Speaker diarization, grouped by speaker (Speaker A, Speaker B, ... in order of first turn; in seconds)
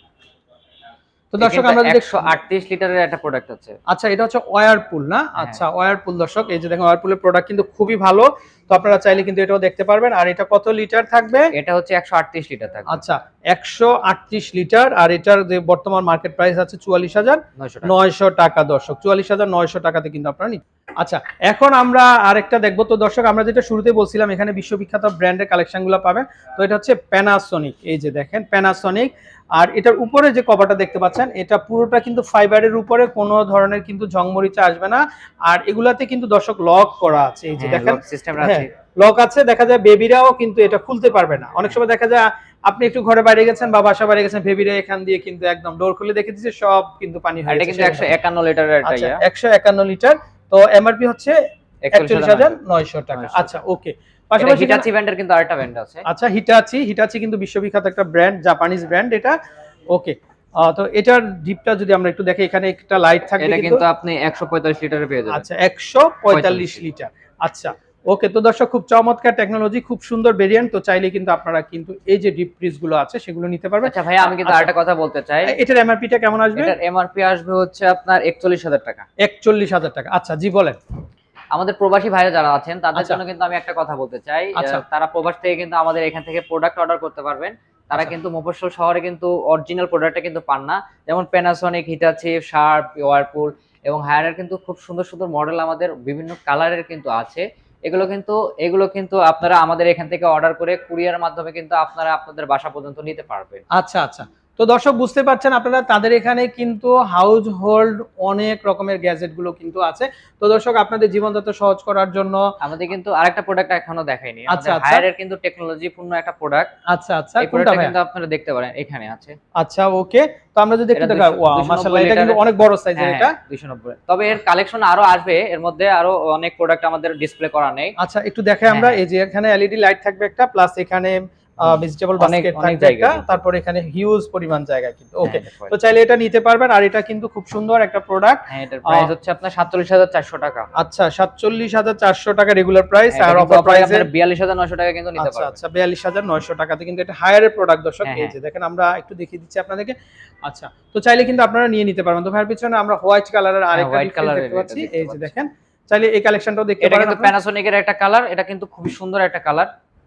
Speaker A: 1.3-2.4, 3.9-11.5, 12.9-48.1, 48.8-51.4, 51.9-54.9, 56.1-59.4, 59.9-63.8, 65.3-74.7, 75.5-76.8, 79.2-80.8, 84.6-84.8, 103.7-112.5, 114.5-115.0, 116.9-117.9, 119.6-123.4, 128.0-139.1, 140.8-144.1, 145.2-157.3
Speaker B: 1.4-3.8, 11.5-13.0, 17.6-17.9, 37.6-38.7, 47.5-49.2, 51.8-52.5, 53.1-53.5, 54.4-56.0, 63.4-65.5, 66.3-66.8, 73.8-75.5, 76.6-79.0, 81.5-103.6, 112.6-116.7, 117.4-119.4, 121.0-122.4, 123.0-128.0, 128.7-129.0, 131.7-133.3, 135.2-135.7, 138.5-140.7, 143.1-145.6, 148.0-148.3, 153.7-155.3, 156.8-159.7